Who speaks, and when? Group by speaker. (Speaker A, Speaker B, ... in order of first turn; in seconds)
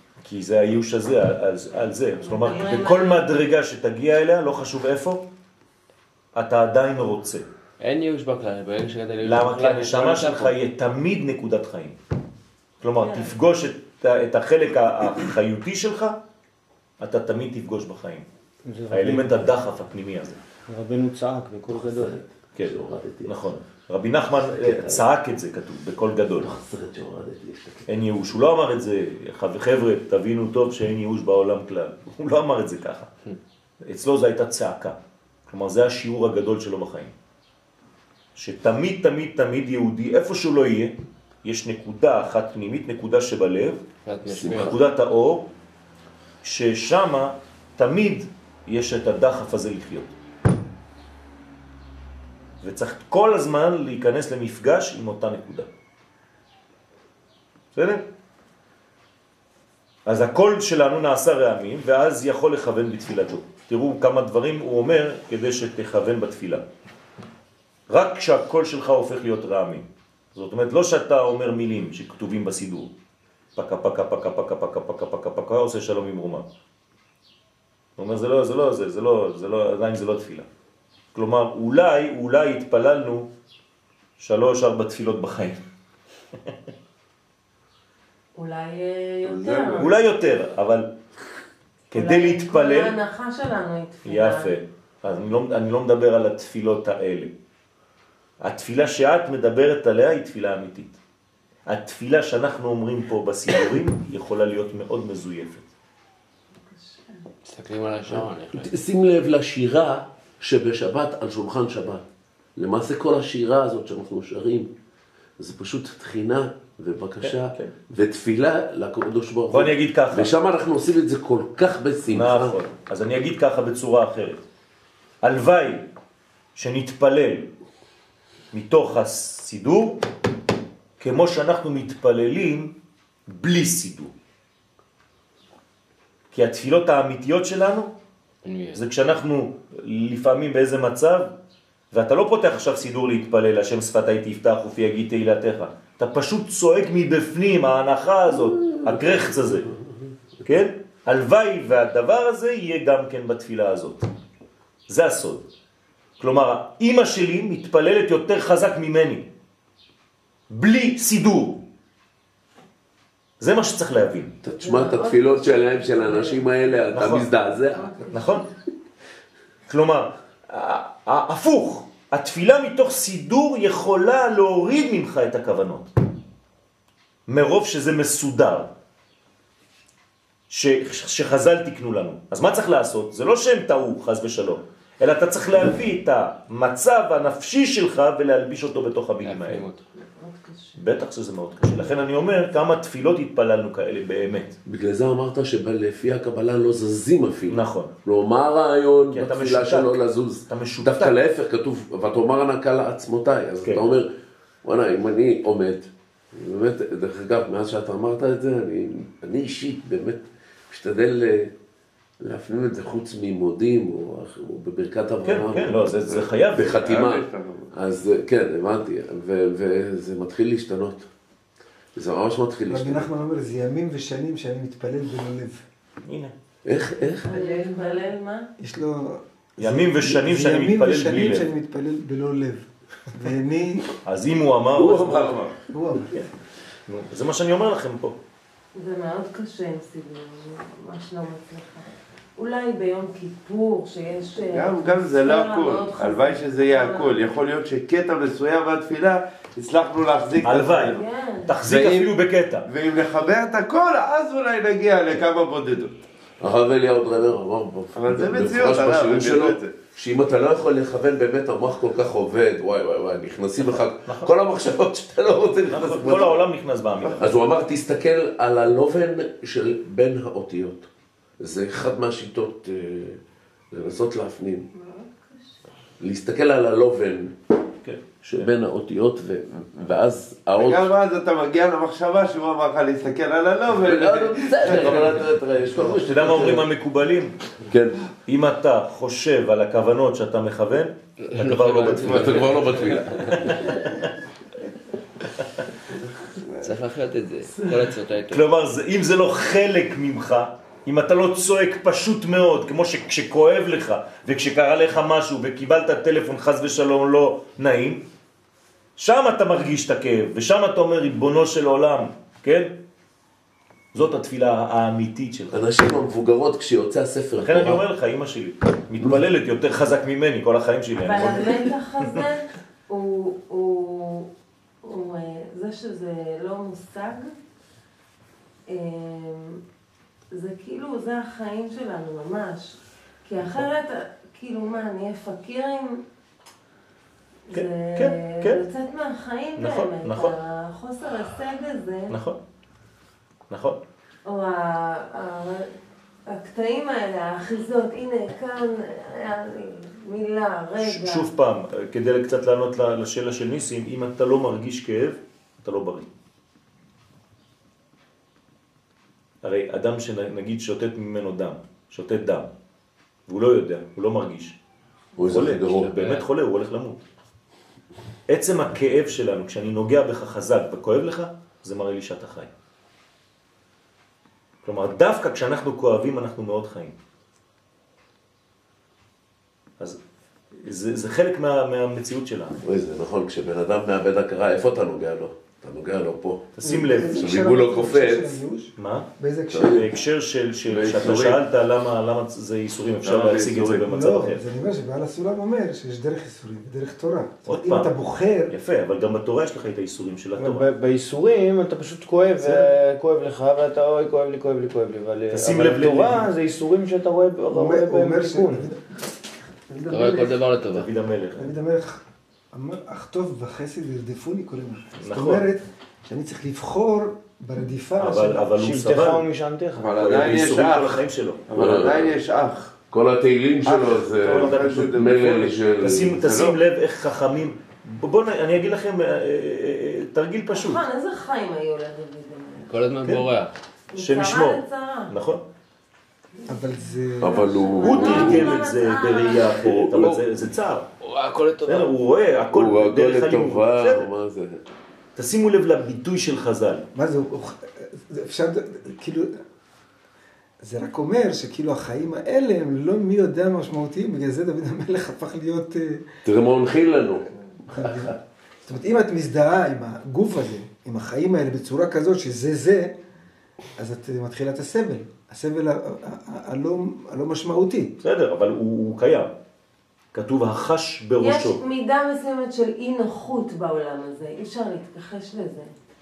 Speaker A: 0.2-5.2, 6.3-7.5, 9.2-12.0, 12.8-16.2, 17.0-18.3, 18.9-20.4, 22.6-26.6, 27.9-33.1, 33.8-37.1, 38.4-43.8, 44.5-45.5, 46.4-50.1, 52.6-55.7, 57.8-58.0, 60.1-66.7, 67.9-72.9, 73.6-76.5, 78.0-80.5, 81.1-83.3, 84.2-85.6, 89.8-91.0, 91.9-93.0, 94.1-97.3, 98.4-101.0, 101.7-105.7, 117.2-117.7, 119.5-120.3, 122.1-124.4, 125.2-125.9, 126.6-127.5, 128.5-130.0, 131.0-132.8, 133.3-134.1, 136.3-137.9, 138.7-141.3, 141.9-149.7, 150.4-154.1, 154.9-155.4, 156.2-159.3, 160.5-161.6, 163.4-164.3, 166.9-167.3, 168.1-168.5, 169.7-175.9, 177.3-178.7, 180.5-189.7, 190.8-194.6, 197.5-197.9, 199.1-201.2, 203.6-203.9, 215.2-216.9, 226.1-226.3, 229.6-231.5, 234.0-235.4, 236.9-238.2, 250.4-252.7, 264.1-264.3, 265.7-267.3, 285.8-287.4, 288.3-294.1, 298.3-308.0, 309.0-312.8, 313.9-316.0, 317.4-321.8, 337.5-338.6, 339.6-340.4, 342.1-342.4, 343.5-343.8, 350.8-356.1, 359.4-362.5, 363.3-364.6, 365.2-367.0, 368.3-372.5, 374.6-377.0, 380.6-382.6, 386.6-387.4, 388.8-394.4, 397.5-397.9, 398.5-400.7, 405.3-406.3, 410.7-411.5, 415.0-415.5, 418.0-419.2, 420.0-421.4, 424.2-430.8, 434.0-435.4, 437.8-440.9, 441.6-444.1, 445.2-446.9, 468.0-469.3, 470.1-471.6
Speaker B: 2.2-3.3, 13.0-13.4, 88.4-89.9, 91.9-94.6, 106.5-107.3, 164.5-168.4, 190.0-190.8, 227.2-228.5, 238.8-241.9, 242.4-247.2, 250.8-251.6, 274.7-275.6, 321.0-324.3, 324.8-327.3, 328.7-329.6, 330.3-336.0, 337.5-342.2, 344.3-345.7, 346.3-351.3, 430.5-432.7, 433.9-435.1, 436.4-439.7, 471.2-475.7
Speaker C: 7.8-10.6, 44.0-44.8, 107.5-108.7, 138.4-138.8, 189.2-189.8, 291.2-293.5, 296.6-298.5, 365.8-366.2, 409.9-410.9, 432.6-433.6, 441.0-441.9
Speaker D: 18.6-19.5, 20.7-22.2, 400.4-408.7, 418.6-420.2
Speaker E: 21.7-23.5, 24.3-25.1, 26.4-27.9, 44.2-44.8, 108.1-112.0, 112.6-114.7, 115.4-122.6, 148.3-150.5, 164.4-168.0, 194.7-204.1, 204.6-211.5, 212.2-221.1, 221.9-223.1, 226.7-227.3, 234.8-235.6, 256.4-266.4, 267.1-270.9, 271.4-274.7, 276.0-277.3, 278.2-280.9, 283.7-286.7, 287.7-288.0, 291.9-293.6, 315.5-317.9, 365.2-366.1, 382.6-386.5, 387.1-388.4, 389.5-389.9, 390.7-391.4, 421.5-422.2, 422.9-426.4, 437.2-438.7, 439.6-440.2, 442.5-444.6, 456.2-458.1
Speaker F: 89.2-89.9, 216.1-217.7, 244.5-251.1, 251.7-252.1, 252.7-256.0, 257.9-259.7, 265.9-266.3, 280.6-285.4, 393.1-393.7, 419.8-422.8, 423.9-426.6
Speaker G: 222.7-225.7, 228.6-233.9, 235.7-236.3, 386.6-389.9, 393.8-398.5, 407.5-408.8, 409.7-410.5, 411.4-418.5, 436.5-437.7, 446.9-449.3, 450.6-456.2, 457.7-462.9, 463.8-468.0